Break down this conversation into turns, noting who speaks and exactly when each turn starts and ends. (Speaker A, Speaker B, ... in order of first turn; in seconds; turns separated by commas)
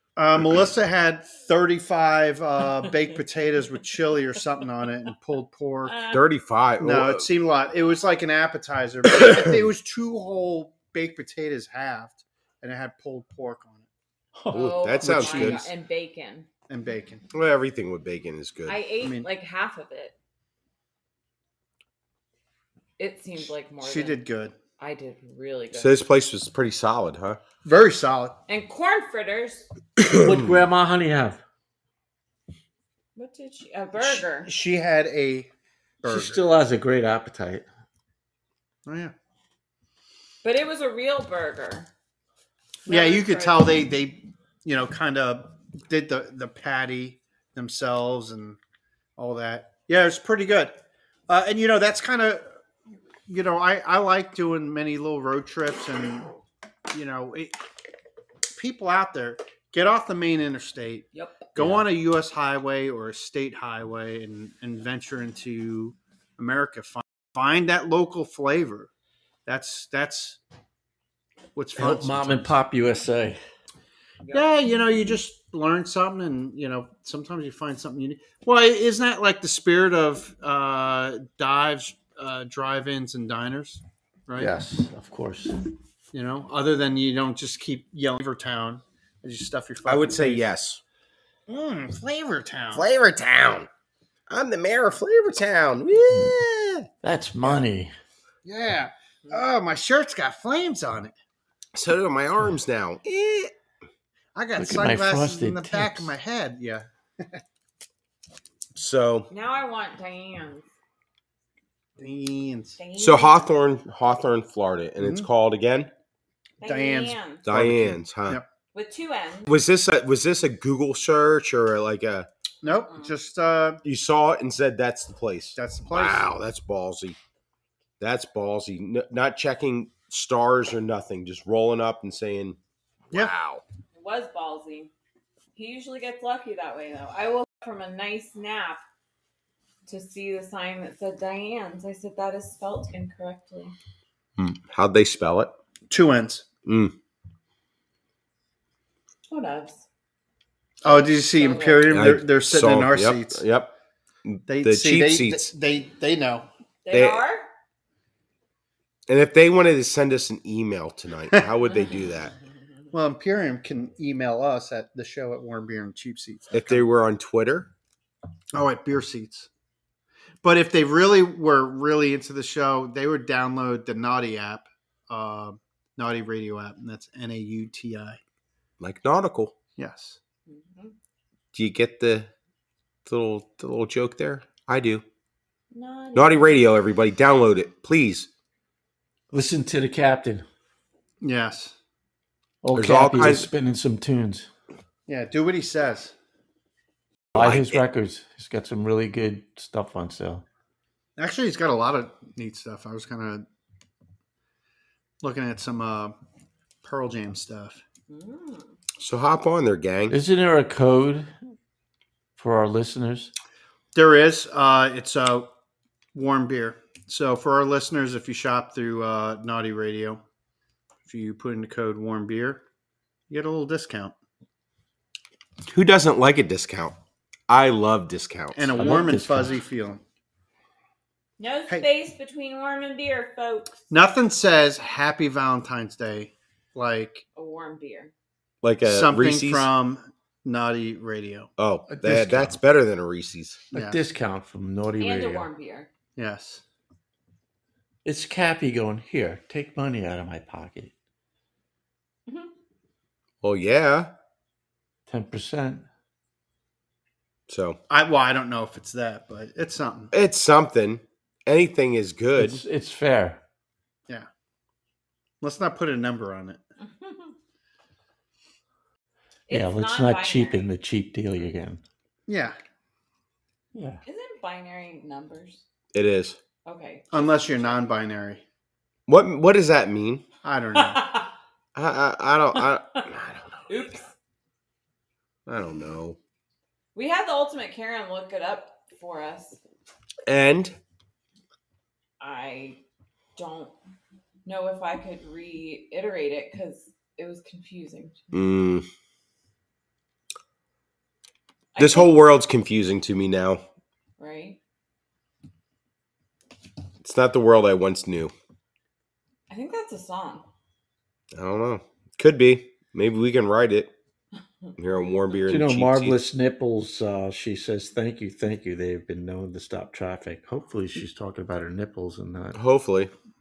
Speaker A: 0.2-6.1, Speaker B: 5.9-6.2, Speaker C: 6.1-7.3, Speaker A: 6.8-13.9, Speaker C: 9.2-9.7, Speaker B: 14.5-16.5, Speaker C: 14.5-15.7, Speaker A: 15.0-15.7, Speaker A: 16.7-17.2, Speaker C: 17.3-18.8, Speaker B: 18.7-20.1, Speaker A: 19.0-19.3, Speaker B: 23.0-24.2, Speaker A: 23.8-24.6, Speaker B: 24.8-25.9, Speaker C: 25.7-27.4, Speaker A: 27.6-28.4, Speaker B: 28.5-29.7, Speaker C: 30.0-30.5, Speaker D: 30.1-31.4, Speaker B: 33.2-34.5, Speaker A: 34.0-35.5, Speaker A: 36.0-36.4, Speaker D: 36.0-37.6, Speaker A: 38.9-39.1, Speaker B: 40.4-41.9, Speaker B: 42.9-43.8, Speaker A: 42.9-48.6, Speaker A: 49.2-52.5, Speaker A: 53.3-56.3, Speaker A: 56.9-57.5, Speaker A: 58.5-68.9, Speaker B: 61.1-61.5, Speaker D: 61.6-61.8, Speaker A: 69.5-70.4, Speaker A: 71.5-72.5, Speaker D: 71.8-73.4, Speaker A: 74.3-84.5, Speaker D: 84.4-85.6, Speaker A: 86.1-90.5, Speaker C: 89.8-90.8, Speaker A: 91.5-92.8, Speaker C: 92.7-93.7, Speaker C: 94.3-96.9, Speaker D: 97.0-97.9, Speaker A: 98.5-101.1, Speaker C: 101.8-103.5, Speaker A: 104.3-107.4, Speaker D: 104.6-106.1, Speaker C: 108.8-109.3, Speaker B: 109.3-110.7, Speaker A: 112.0-112.8, Speaker B: 112.8-113.5, Speaker C: 113.0-115.9, Speaker A: 115.0-115.3, Speaker B: 116.6-117.5, Speaker A: 116.6-118.5, Speaker C: 117.5-118.4, Speaker B: 118.7-119.6, Speaker C: 119.5-122.3, Speaker A: 122.6-123.8, Speaker B: 122.7-123.1, Speaker C: 123.8-127.2, Speaker A: 125.6-126.3, Speaker C: 128.0-132.6, Speaker C: 133.1-133.6, Speaker B: 133.9-134.9, Speaker B: 135.6-138.8, Speaker B: 139.9-143.8, Speaker C: 144.4-145.5, Speaker A: 145.9-146.4, Speaker C: 146.7-146.9, Speaker B: 149.3-149.8, Speaker A: 150.8-153.4, Speaker B: 150.9-151.9, Speaker C: 151.9-153.7, Speaker C: 154.2-155.5, Speaker A: 154.5-156.5, Speaker B: 156.8-157.5, Speaker C: 156.9-157.2, Speaker C: 159.1-162.3, Speaker A: 162.9-166.8, Speaker C: 166.5-167.7, Speaker A: 168.5-169.5, Speaker A: 170.4-178.2, Speaker C: 178.8-179.6, Speaker A: 179.8-180.2, Speaker B: 180.5-180.9, Speaker C: 181.5-182.3, Speaker C: 183.1-185.0, Speaker B: 185.7-186.6, Speaker C: 186.2-188.3, Speaker D: 189.3-190.4, Speaker A: 191.2-191.8, Speaker D: 192.6-194.5, Speaker C: 192.7-193.5, Speaker A: 195.1-196.1, Speaker C: 197.3-197.8, Speaker D: 197.3-200.4, Speaker A: 201.2-203.5, Speaker A: 205.2-206.1, Speaker A: 206.8-207.8, Speaker B: 208.1-208.8, Speaker C: 209.0-210.2, Speaker D: 210.1-211.3, Speaker D: 212.4-213.3, Speaker A: 213.9-215.5, Speaker A: 216.1-220.2, Speaker A: 221.1-222.6, Speaker A: 223.3-224.1, Speaker C: 225.7-227.0, Speaker C: 227.5-228.7, Speaker A: 228.6-230.0, Speaker D: 228.8-229.6, Speaker B: 231.4-233.7, Speaker A: 233.9-237.2, Speaker B: 237.4-238.1, Speaker C: 238.6-239.7, Speaker A: 238.8-241.5, Speaker C: 241.6-243.6, Speaker D: 241.9-242.6, Speaker A: 243.7-244.0, Speaker D: 243.7-245.5, Speaker B: 245.0-245.9, Speaker A: 246.2-246.6, Speaker D: 248.1-250.9, Speaker C: 253.4-254.1, Speaker D: 255.1-255.9, Speaker C: 257.5-257.8, Speaker A: 257.9-260.1, Speaker C: 260.1-262.6, Speaker D: 262.4-263.4, Speaker A: 265.4-266.6, Speaker B: 266.8-267.3, Speaker B: 269.5-270.7, Speaker D: 269.5-271.8, Speaker A: 272.3-272.6, Speaker D: 273.7-274.0, Speaker B: 274.1-275.6, Speaker C: 275.9-276.4, Speaker B: 276.7-277.8, Speaker A: 277.1-278.4, Speaker C: 279.1-280.2, Speaker A: 280.4-281.0, Speaker B: 280.8-281.3, Speaker C: 281.8-283.7, Speaker B: 283.7-284.1, Speaker C: 285.5-286.2, Speaker B: 286.9-289.6, Speaker C: 290.3-290.8, Speaker B: 292.2-292.8, Speaker B: 293.4-293.7, Speaker B: 294.4-298.3, Speaker C: 298.3-298.9, Speaker B: 301.8-302.1, Speaker C: 301.8-303.6, Speaker B: 304.2-304.6, Speaker C: 307.0-308.3, Speaker B: 309.5-310.4, Speaker C: 311.3-313.9, Speaker C: 314.8-316.2, Speaker D: 315.5-322.6, Speaker C: 322.6-323.1